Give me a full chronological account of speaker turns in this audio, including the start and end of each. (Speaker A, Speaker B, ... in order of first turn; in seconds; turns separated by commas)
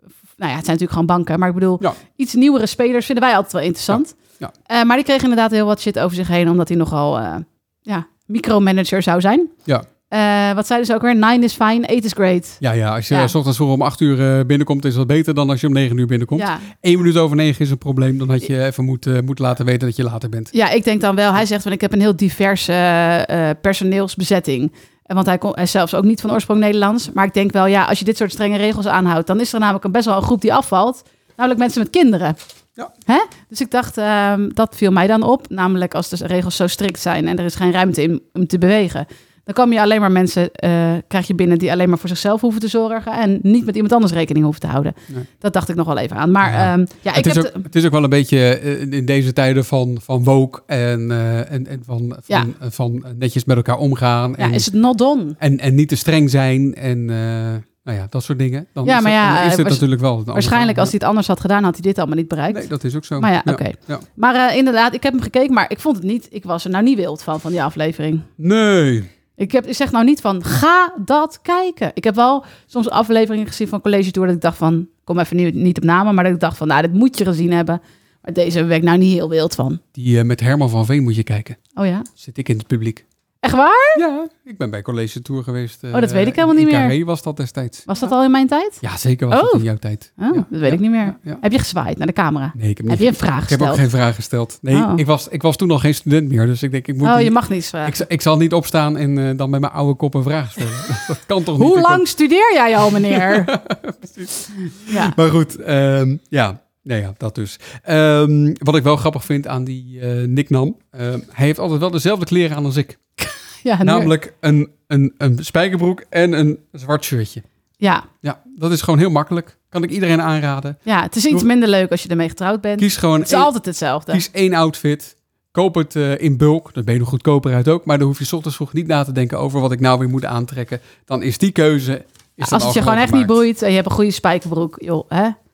Speaker A: 0.4-4.1, Speaker B: 3.9-4.5, Speaker A: 4.7-9.5, Speaker A: 10.1-13.3, Speaker B: 12.6-20.5, Speaker A: 16.4-16.7, Speaker A: 20.5-32.4, Speaker A: 33.1-47.6, Speaker B: 46.4-54.7, Speaker A: 54.4-55.4, Speaker B: 55.4-60.9, Speaker A: 58.9-62.7, Speaker B: 62.5-64.0, Speaker A: 63.2-68.3, Speaker B: 68.4-69.1, Speaker A: 69.4-79.8, Speaker B: 80.0-81.6, Speaker A: 81.8-82.1, Speaker B: 82.2-83.0, Speaker A: 83.4-84.0, Speaker B: 84.0-87.9, Speaker A: 85.9-87.0, Speaker A: 87.9-89.7, Speaker B: 88.8-91.4, Speaker A: 90.2-93.8, Speaker B: 92.5-102.0, Speaker A: 94.7-95.0, Speaker A: 97.0-98.0, Speaker A: 101.5-103.6, Speaker B: 103.1-113.0, Speaker A: 104.9-105.2, Speaker A: 113.2-114.1, Speaker B: 113.8-117.4, Speaker A: 117.8-118.1, Speaker B: 118.2-120.8, Speaker A: 120.9-124.2, Speaker B: 122.8-123.5, Speaker B: 124.1-133.4, Speaker A: 132.4-135.4